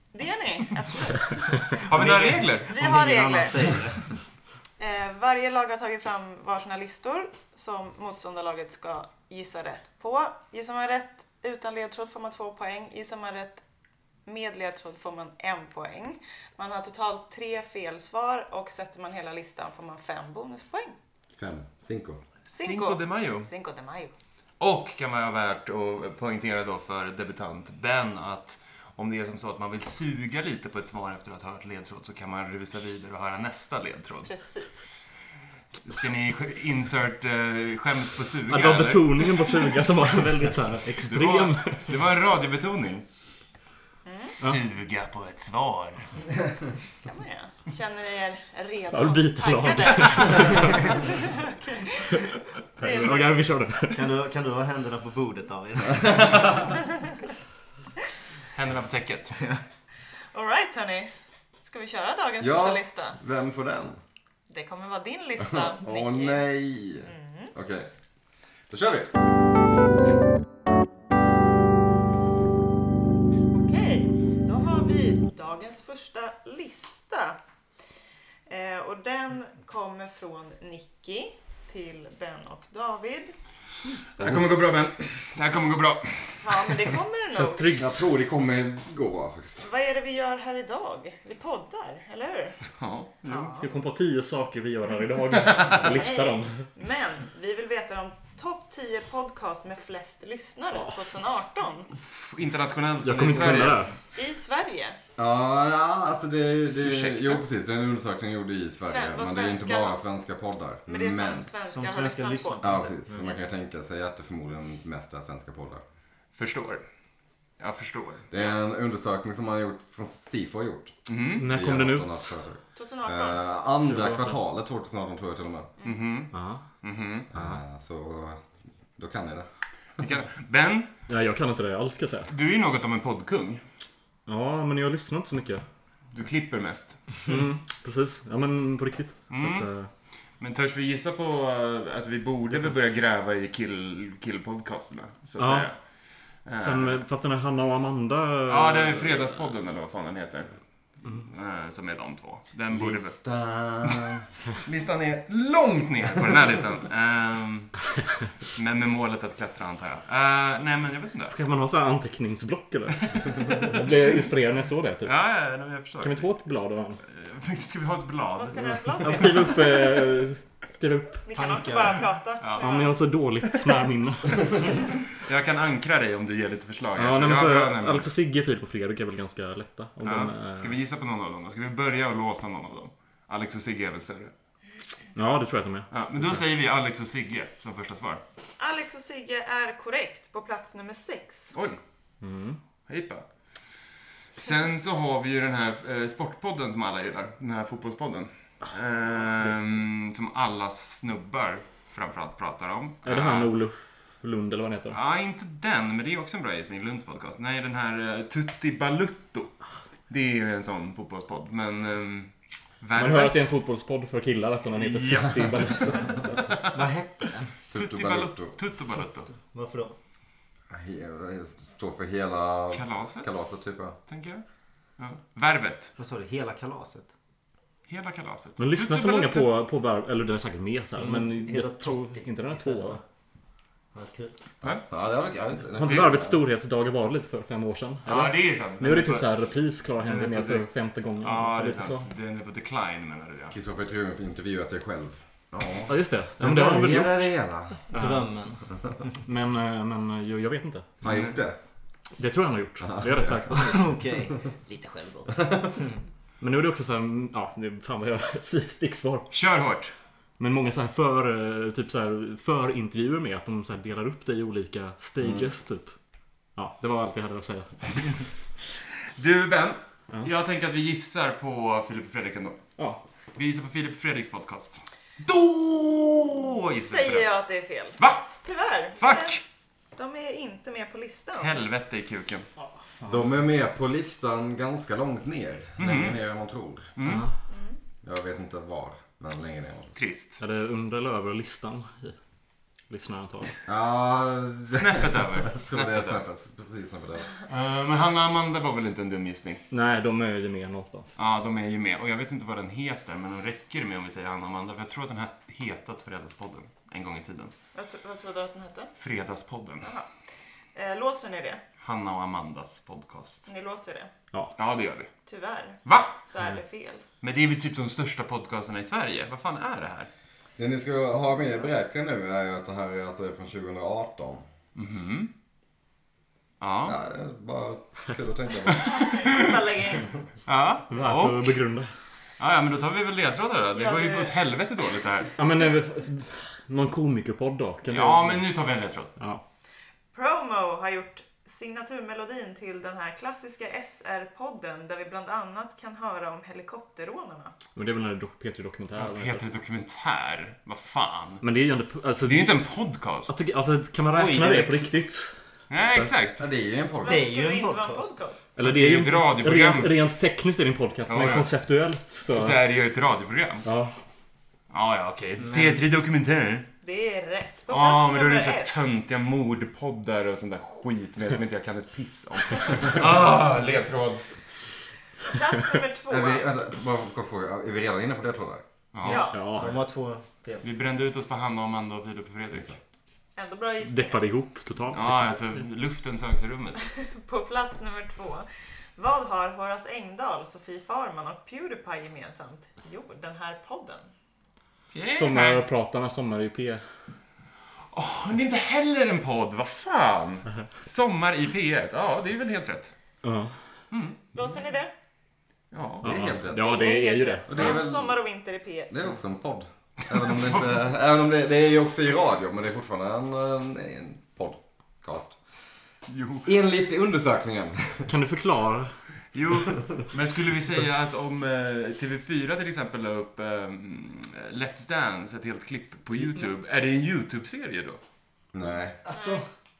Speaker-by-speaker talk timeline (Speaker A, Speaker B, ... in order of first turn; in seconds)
Speaker A: 0.1-1.8, 2.7-3.6, 4.8-13.6, 14.2-20.9, 22.6-24.1, 34.2-34.8, 44.0-44.4, 47.0-52.2, 52.8-53.4, 60.3-61.1, 61.6-63.2, 64.5-66.4, 67.0-67.5, 73.5-77.4, 78.5-83.3, 86.4-87.8, 89.6-92.6, 93.2-93.7, 95.7-101.9, 104.1-105.0, 108.8-110.0, 110.9-112.7, 122.8-123.4, 168.3-170.0, 171.2-172.9, 188.6-191.5, 276.8-279.4, 279.9-281.6, 287.5-287.8, 307.7-308.9, 309.8-310.1, 310.7-311.6, 313.5-314.1, 315.3-317.0, 328.7-330.1, 333.7-334.3, 340.1-347.5, 357.0-358.5, 366.8-368.8, 375.2-376.5, 379.0-379.5, 383.4-384.3, 386.8-388.4, 389.0-394.1, 404.3-404.9, 406.5-409.0, 429.1-429.4
Speaker B: 1.7-2.7, 22.5-23.5, 24.6-34.3, 35.7-39.6, 41.0-43.0, 44.3-46.2, 58.5-59.4, 84.2-86.7, 92.8-93.5, 102.0-103.8, 106.8-107.4, 116.3-116.8, 117.6-118.2, 121.0-121.5, 125.8-127.3, 130.0-130.9, 132.3-133.6, 136.1-137.0, 139.3-139.7, 140.4-145.8, 146.4-147.0, 148.5-153.2, 153.8-161.3, 165.0-166.2, 167.0-169.4, 172.4-172.7, 174.7-178.1, 180.0-184.3, 185.9-188.2, 191.5-191.8, 192.9-193.2, 194.3-203.5, 204.9-213.5, 214.7-216.9, 217.7-219.3, 222.7-223.3, 224.1-224.4, 225.0-225.9, 227.9-229.5, 238.0-239.3, 240.0-240.7, 241.2-243.5, 251.0-251.4, 259.3-259.9, 269.1-272.6, 273.3-277.3, 278.0-278.3, 279.0-279.4, 281.4-282.5, 285.8-286.2, 286.9-287.3, 289.9-290.4, 294.7-296.2, 297.5-299.6, 301.2-307.5, 309.0-309.9, 311.8-313.5, 314.6-315.1, 315.9-316.2, 317.2-320.1, 324.7-325.3, 326.6-326.9, 330.4-331.6, 332.4-335.3, 337.9-339.1, 349.0-351.4, 352.2-353.3, 355.7-356.5, 358.6-360.0, 361.1-361.5, 362.3-363.6, 364.7-366.7, 367.7-374.3, 378.9-379.3, 380.6-382.8, 384.9-386.8, 394.9-395.6, 397.9-402.9, 403.9-404.2, 405.7-406.4, 410.2-410.7, 416.1-416.5, 419.3-428.0
Speaker C: 1.9-4.2, 53.9-56.7, 111.7-113.3, 171.3-172.1, 216.7-217.5, 219.4-219.9, 226.0-227.1, 231.0-233.0, 233.9-234.3, 246.9-247.2, 247.9-248.6, 253.5-256.0, 354.1-354.9, 357.1-358.2, 365.4-365.8, 379.4-380.6, 429.0-429.4
Speaker D: 21.4-22.2, 56.0-56.5, 62.4-64.0, 65.4-67.9, 68.7-69.2, 87.8-89.7, 105.2-111.5, 112.6-115.8, 118.3-125.7, 127.3-128.4, 129.0-129.5, 152.7-154.2, 217.7-218.5, 220.7-224.0, 234.6-236.4, 243.5-247.8, 251.0-251.6, 252.8-253.4, 283.1-286.9, 288.0-289.9, 293.6-297.3, 320.6-324.4, 326.8-328.9, 356.4-357.3, 376.1-378.6, 406.0-406.7, 407.5-408.2, 408.9-415.4, 416.4-418.1, 428.5-429.0
Speaker E: 38.5-42.0, 48.9-50.8, 52.8-54.1, 87.3-88.0, 93.6-96.7, 103.0-104.0, 121.4-122.3, 123.8-124.4, 126.3-126.7, 127.3-127.6, 131.1-132.3, 134.3-135.6, 137.3-139.9, 145.4-145.7, 146.6-149.4, 161.3-165.1, 166.0-167.0, 168.6-171.3, 172.6-174.4, 176.9-180.7, 185.1-186.4, 192.2-192.6, 203.0-205.0, 212.9-216.5, 228.6-233.0, 235.8-242.1, 245.9-247.3, 247.9-248.2, 249.2-250.9, 252.2-253.9, 256.4-259.3, 260.4-265.9, 266.6-268.2, 282.6-283.4, 287.0-287.3, 290.4-292.1, 292.9-293.5, 299.7-301.1, 330.9-331.9, 335.4-338.5, 339.2-339.4, 347.8-349.4, 351.4-352.6, 353.3-356.1, 358.6-362.6, 363.6-363.9, 379.3-379.8, 383.8-385.6, 395.1-396.8, 403.2-403.6, 406.0-407.8, 418.1-418.9